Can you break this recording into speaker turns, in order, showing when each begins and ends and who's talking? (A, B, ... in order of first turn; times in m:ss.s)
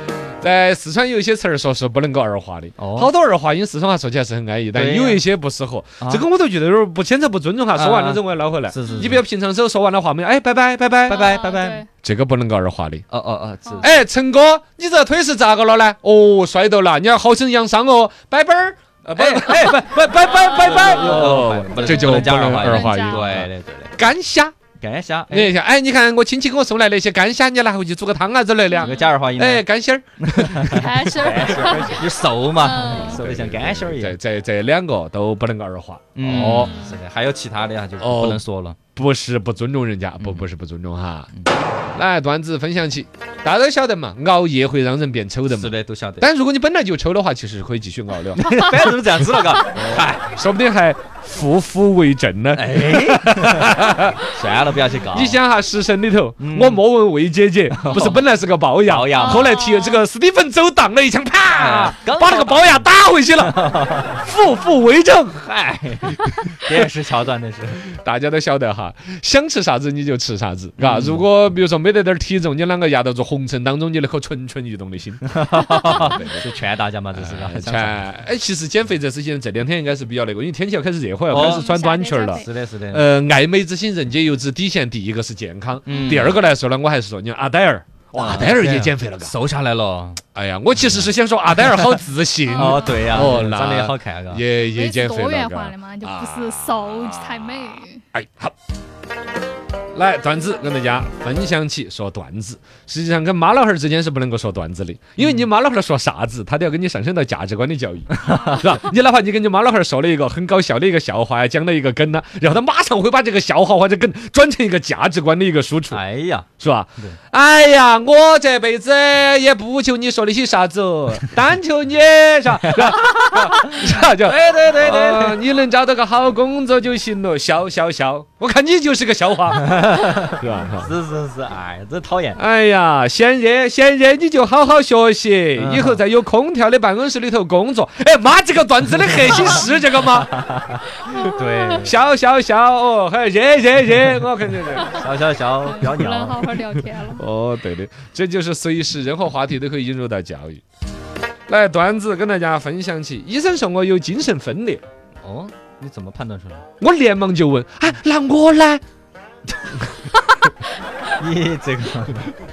0:00.4-0:11.3 A
0:02.8-0:03.1 B
0:04.7-0:05.2 B
0:06.0-0:06.2 B
0:07.8-0:09.2 B
0:11.1-0:11.8 B
0:11.1-0:11.9 C
0:12.0-0:13.0 A
0:13.1-0:13.9 B
0:13.6-0:13.9 C
0:13.8-0:24.5 A
0:19.2-0:24.0 B
0:20.2-0:23.2 C
0:24.8-0:25.5 B
0:25.3-0:31.8 A
0:28.8-0:29.1 C
0:28.8-0:29.6 B
0:30.2-0:34.2 B
0:30.6-0:32.0 C
0:32.5-0:33.2 C
0:32.9-0:36.7 A
0:36.2-0:38.8 B
0:36.4-0:37.0 C
0:38.0-0:38.4 A
0:39.0-0:41.3 A
0:40.2-0:40.5 B
0:42.0-0:48.5 A
0:45.5-0:46.3 B
0:48.4-0:50.2 B
0:49.7-0:54.2 A
0:52.5-0:55.4 B
0:55.1-1:05.5 A
0:56.4-0:56.8 B
0:57.7-0:58.2 B
0:58.9-0:59.6 B
0:59.2-1:00.0 C
1:01.5-1:04.2 B
1:05.5-1:07.8 B
1:06.2-1:06.7 A
1:07.8-1:16.4 A
1:10.8-1:11.2 B
1:15.3-1:18.0 B
1:17.1-1:29.3 A
1:21.3-1:21.7 B
1:21.3-1:22.5 C
1:22.3-1:23.0 B
1:25.9-1:26.4 B
1:25.9-1:26.2 C
1:28.1-1:30.2 B
1:30.4-1:37.4 A
1:32.5-1:34.4 B
1:34.6-1:38.0 C
1:38.1-1:38.5 A
1:39.9-1:56.0 A
1:45.2-1:45.5 B
1:48.1-1:48.6 B
1:55.9-1:56.5 B
1:56.6-2:10.9 A
2:02.6-2:05.4 B
2:09.6-2:12.4 B
2:12.4-2:20.3 A
2:15.6-2:16.0 B
2:19.1-2:19.6 B
2:20.3-2:21.9 B
2:21.2-2:21.7 C
2:21.8-2:25.0 A
2:24.8-2:25.0 C
2:24.9-2:26.4 B
2:25.6-2:27.2 C
2:27.1-2:30.6 A
2:31.5-2:34.8 A
2:35.2-2:36.6 B
2:36.8-2:38.8 A
2:41.2-2:42.3 B